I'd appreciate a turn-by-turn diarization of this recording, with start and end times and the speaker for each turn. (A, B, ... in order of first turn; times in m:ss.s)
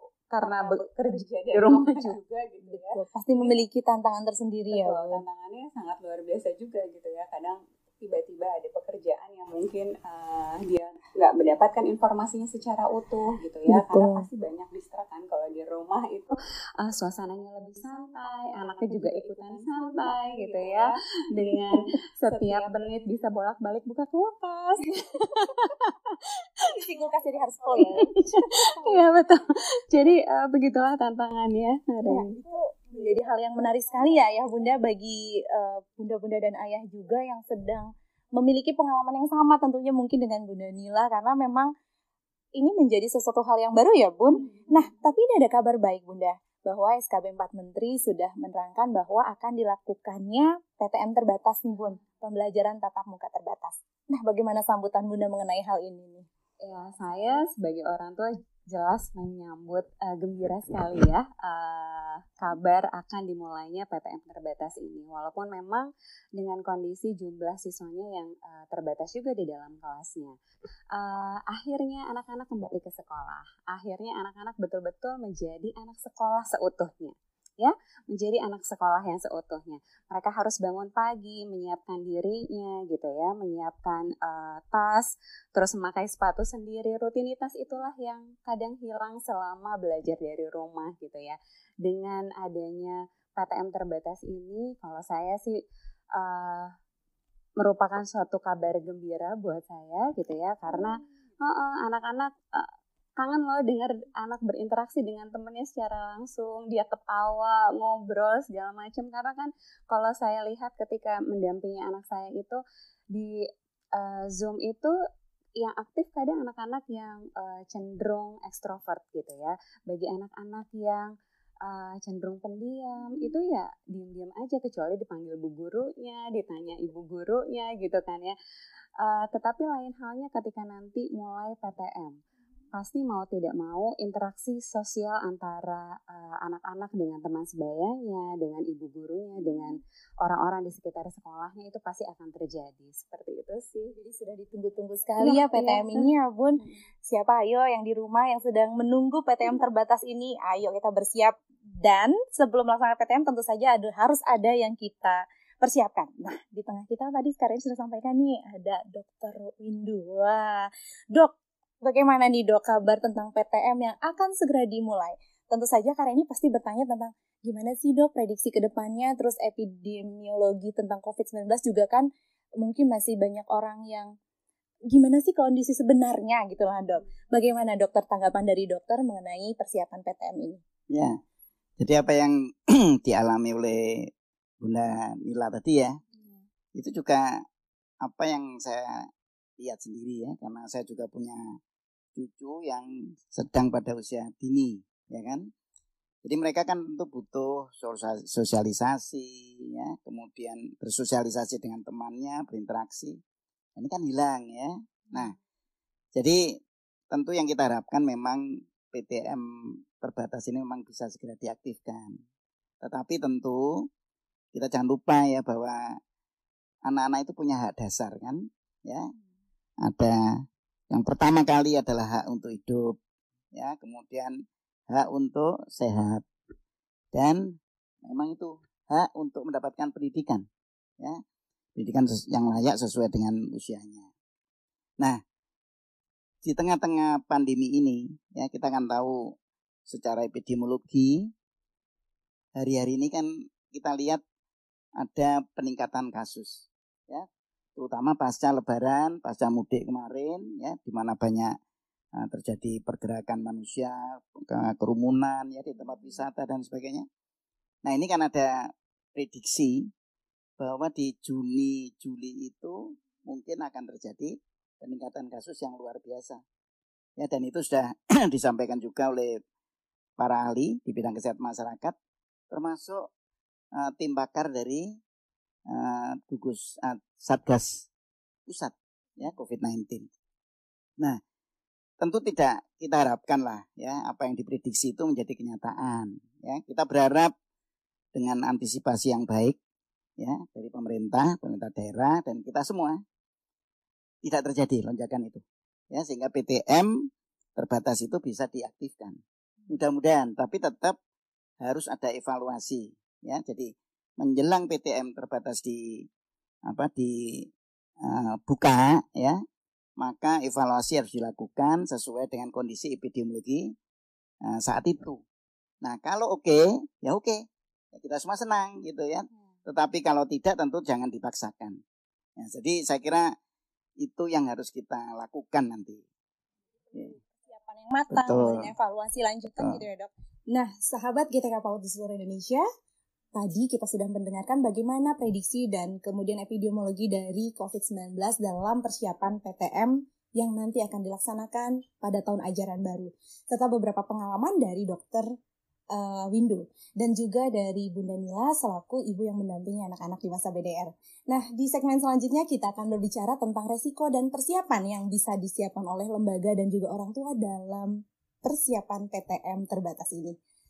0:00.3-0:03.6 A
0:01.7-0:02.1 B
0:02.6-0:05.2 B
0:04.7-0:26.3 A
0:13.7-0:14.3 B
0:26.6-0:28.7 B
0:27.8-0:32.4 A
0:32.1-0:41.7 B
0:42.6-0:56.3 B
0:56.6-1:10.3 A
1:11.0-1:35.6 A
1:36.2-1:36.7 A
1:37.6-1:42.7 A
1:43.2-1:52.6 A
1:54.0-1:54.9 A
1:55.6-2:01.1 A
2:01.6-2:08.4 A
2:09.0-2:12.2 A
2:12.7-2:23.9 A
2:24.0-2:52.1 B
2:25.2-2:26.1 A
2:52.6-2:54.1 B
2:54.9-3:00.6 B
3:00.9-3:01.2 C
3:01.8-3:06.0 C
3:06.8-3:07.4 C
3:08.0-3:08.9 C
3:09.6-3:11.4 C
3:12.2-3:15.5 C
3:16.2-3:23.2 C
3:23.8-3:25.4 C
3:26.2-3:26.4 C
3:27.1-3:29.4 C
3:30.0-3:32.2 C
3:32.8-3:33.8 C
3:34.5-3:35.8 C
3:36.8-3:39.1 C
3:39.8-3:40.2 C
3:40.9-3:43.0 C
3:43.5-3:44.3 C
3:44.9-3:46.2 C
3:47.1-3:47.4 C
3:48.1-3:50.4 C
3:51.8-3:54.1 C
3:56.4-3:59.2 C
3:59.9-4:01.3 C
4:02.6-4:04.2 C
4:05.0-4:07.2 C
4:07.8-4:11.5 C
4:12.2-4:17.0 C
4:17.8-4:18.5 C
4:19.2-4:19.8 C
4:20.6-4:26.4 C
4:27.2-4:29.4 C
4:30.2-4:32.0 C
4:32.5-4:33.0 C
4:33.8-4:34.9 C
4:35.7-4:37.9 C
4:38.5-4:40.1 C
4:42.0-4:47.3 C
4:48.2-4:49.6 C
4:50.2-4:53.0 C
4:54.2-5:01.0 C
5:01.6-5:06.0 C
5:06.7-5:07.5 C
5:08.0-5:09.4 C
5:10.0-5:13.7 C
5:14.5-5:15.2 C
5:15.8-5:17.4 C
5:18.0-5:21.8 C
5:22.4-5:23.3 C
5:24.0-5:26.0 C
5:26.9-5:32.6 B
5:28.1-5:28.7 C
5:33.4-5:45.3 B
5:45.9-5:57.9 B
5:58.4-6:00.4 B